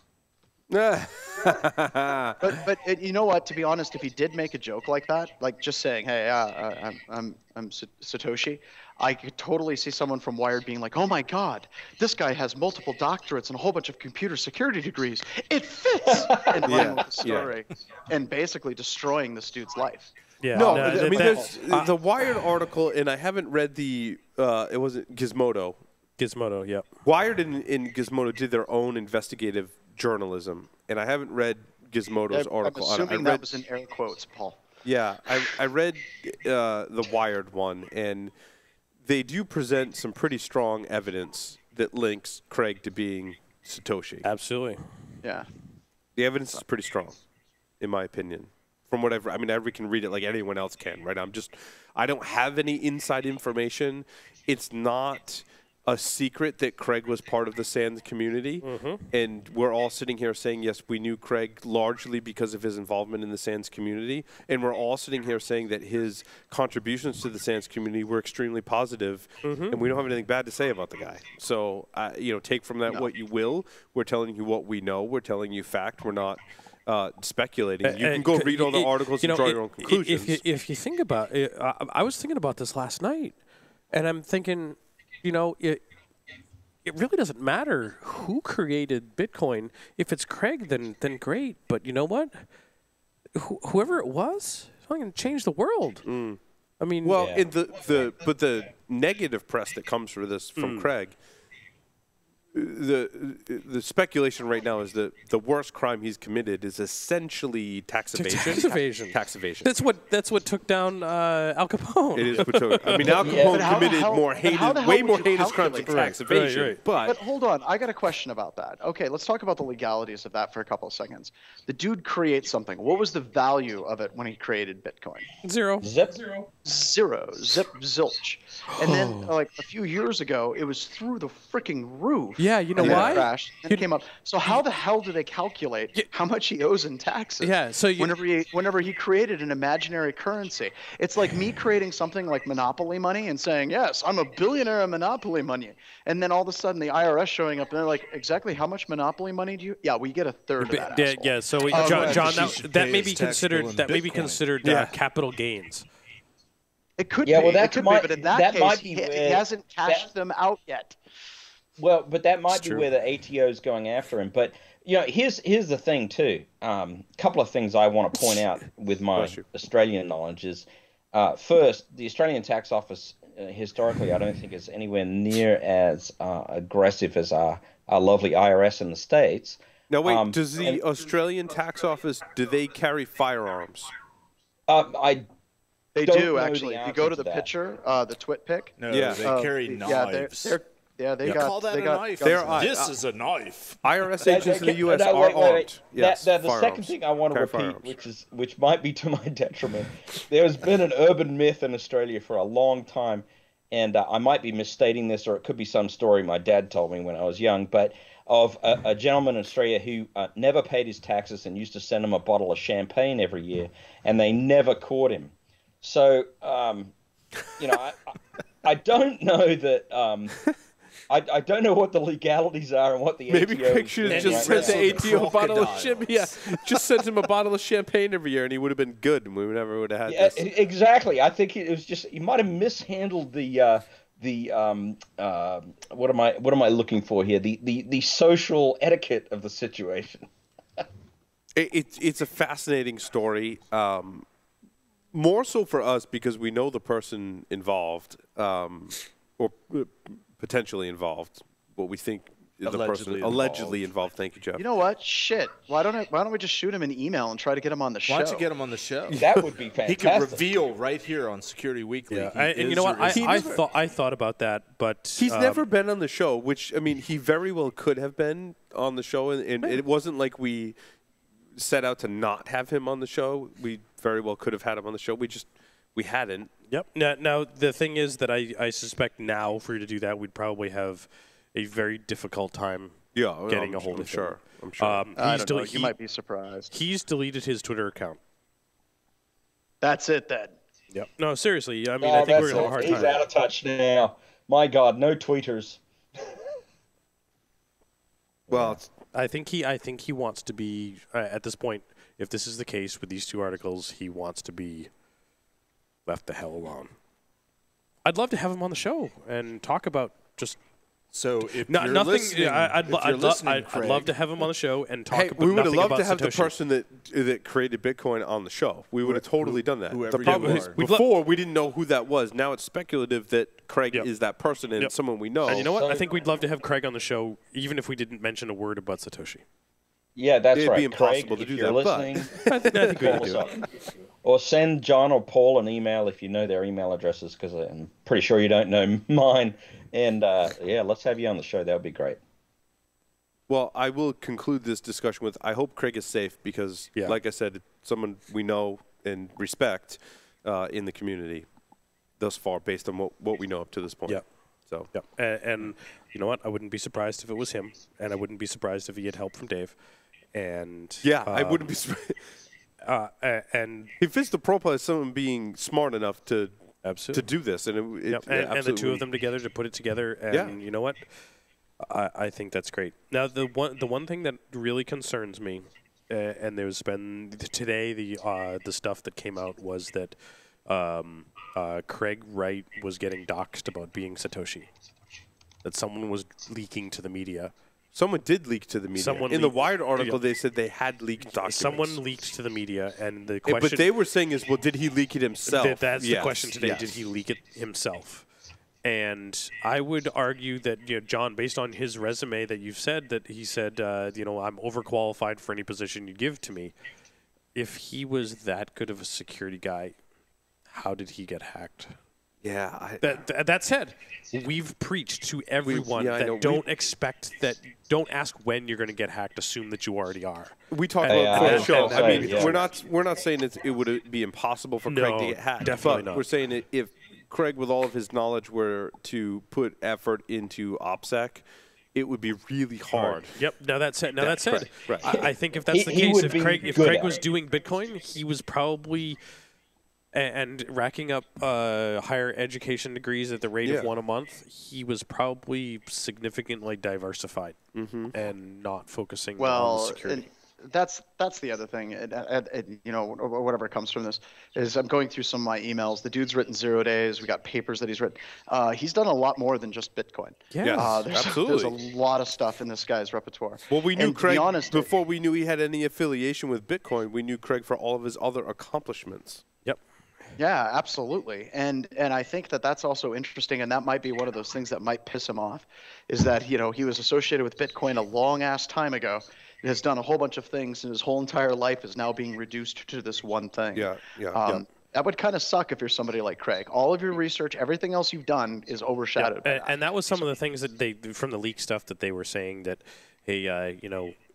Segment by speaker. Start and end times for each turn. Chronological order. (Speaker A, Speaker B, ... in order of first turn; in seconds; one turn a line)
Speaker A: 0.7-2.5
Speaker B: 2.4-20.1
Speaker C: 16.1-16.8
Speaker A: 16.6-17.5
Speaker D: 20.4-22.0
Speaker A: 20.6-25.8
Speaker C: 20.6-21.6
Speaker D: 26.2-26.9
Speaker A: 27.0-33.4
Speaker B: 32.3-34.6
Speaker A: 34.8-38.3
Speaker A: 39.0-44.2
Speaker D: 44.2-45.0
Speaker B: 45.2-45.5
Speaker A: 46.2-47.2
Speaker A: 47.8-80.4
Speaker D: 58.6-59.0
Speaker D: 69.4-69.8
Speaker D: 77.8-83.4
Speaker D: 83.9-85.8
Speaker D: 86.8-92.5
Speaker D: 93.3-96.1
Speaker A: 96.0-96.4
Speaker D: 96.8-97.2
Speaker A: 97.0-101.2
Speaker C: 97.2-97.5
Speaker D: 100.6-100.9
Speaker A: 102.5-109.7
Speaker D: 108.1-113.3
Speaker A: 112.1-117.2
Speaker B: 113.0-116.1
Speaker C: 113.2-114.0
Speaker D: 115.9-116.8
Speaker B: 117.0-125.3
Speaker D: 125.4-125.9
Speaker C: 125.8-126.5
Speaker B: 126.6-152.5
Speaker D: 128.7-129.3
Speaker D: 132.4-133.8
Speaker A: 132.9-133.2
Speaker D: 137.4-138.2
Speaker D: 150.6-155.9
Speaker E: 151.7-154.5
Speaker A: 154.6-154.9
Speaker B: 157.0-161.0
Speaker C: 157.3-160.1
Speaker C: 161.8-180.8
Speaker D: 162.5-162.8
Speaker A: 169.1-169.5
Speaker A: 179.9-183.9
Speaker C: 184.7-185.3
Speaker B: 185.9-192.7
Speaker C: 186.0-187.5
Speaker E: 188.8-190.6
Speaker A: 188.9-189.3
Speaker E: 191.2-193.8
Speaker A: 192.2-192.9
Speaker A: 193.8-197.9
Speaker C: 194.2-216.9
Speaker C: 217.5-220.5
Speaker C: 221.1-225.1
Speaker A: 223.3-230.5
Speaker E: 224.1-226.8
Speaker D: 224.1-224.8
Speaker C: 230.1-240.8
Speaker A: 241.6-244.3
Speaker A: 245.1-254.7
Speaker E: 252.6-253.9
Speaker B: 254.6-258.5
Speaker E: 258.1-259.2
Speaker A: 259.1-259.5
Speaker C: 259.1-260.4
Speaker E: 259.8-263.6
Speaker D: 262.1-265.6
Speaker A: 263.1-263.6
Speaker A: 265.2-270.8
Speaker A: 271.6-276.5
Speaker D: 276.7-285.9
Speaker A: 283.1-285.1
Speaker B: 285.2-286.7
Speaker D: 286.7-288.2
Speaker B: 289.8-290.6
Speaker D: 290.9-293.3
Speaker C: 292.0-295.8
Speaker C: 298.5-298.8
Speaker A: 298.5-298.8
Speaker D: 299.1-304.9
Speaker D: 306.1-306.9
Speaker D: 308.1-310.6
Speaker E: 311.1-314.1
Speaker D: 311.6-316.5
Speaker A: 315.1-325.7
Speaker E: 319.0-320.8
Speaker D: 320.2-321.1
Speaker D: 325.4-329.4
Speaker C: 325.4-326.0
Speaker C: 330.2-332.4
Speaker A: 330.5-333.4
Speaker D: 332.4-333.5
Speaker C: 332.9-333.6
Speaker C: 334.2-342.2
Speaker A: 343.5-351.5
Speaker A: 352.2-354.9
Speaker D: 354.9-359.8
Speaker D: 360.3-361.7
Speaker A: 361.0-362.2
Speaker D: 362.8-363.9
Speaker A: 364.0-366.6
Speaker D: 366.8-367.3
Speaker A: 367.1-369.1
Speaker D: 368.1-371.1
Speaker D: 371.8-384.7
Speaker D: 385.6-387.5
Speaker A: 387.9-392.0
Speaker D: 388.9-390.2
Speaker D: 391.2-393.9
Speaker A: 393.5-397.0
Speaker D: 395.5-398.3
Speaker D: 398.8-406.8
Speaker D: 407.6-410.0
Speaker D: 410.7-412.0
Speaker A: 412.4-413.1
Speaker D: 413.0-422.7
Speaker A: 415.6-416.6
Speaker A: 420.7-433.4
Speaker C: 421.1-422.6
Speaker D: 424.9-426.2
Speaker D: 432.9-439.2
Speaker A: 434.2-435.1
Speaker C: 435.0-437.2
Speaker D: 440.1-447.6
Speaker A: 443.6-443.9
Speaker A: 447.7-448.1
Speaker D: 448.1-450.3
Speaker B: 449.4-464.9
Speaker D: 460.5-461.0
Speaker A: 460.6-461.8
Speaker A: 463.7-469.4
Speaker B: 470.4-489.7
Speaker A: 483.7-484.6
Speaker D: 489.2-494.1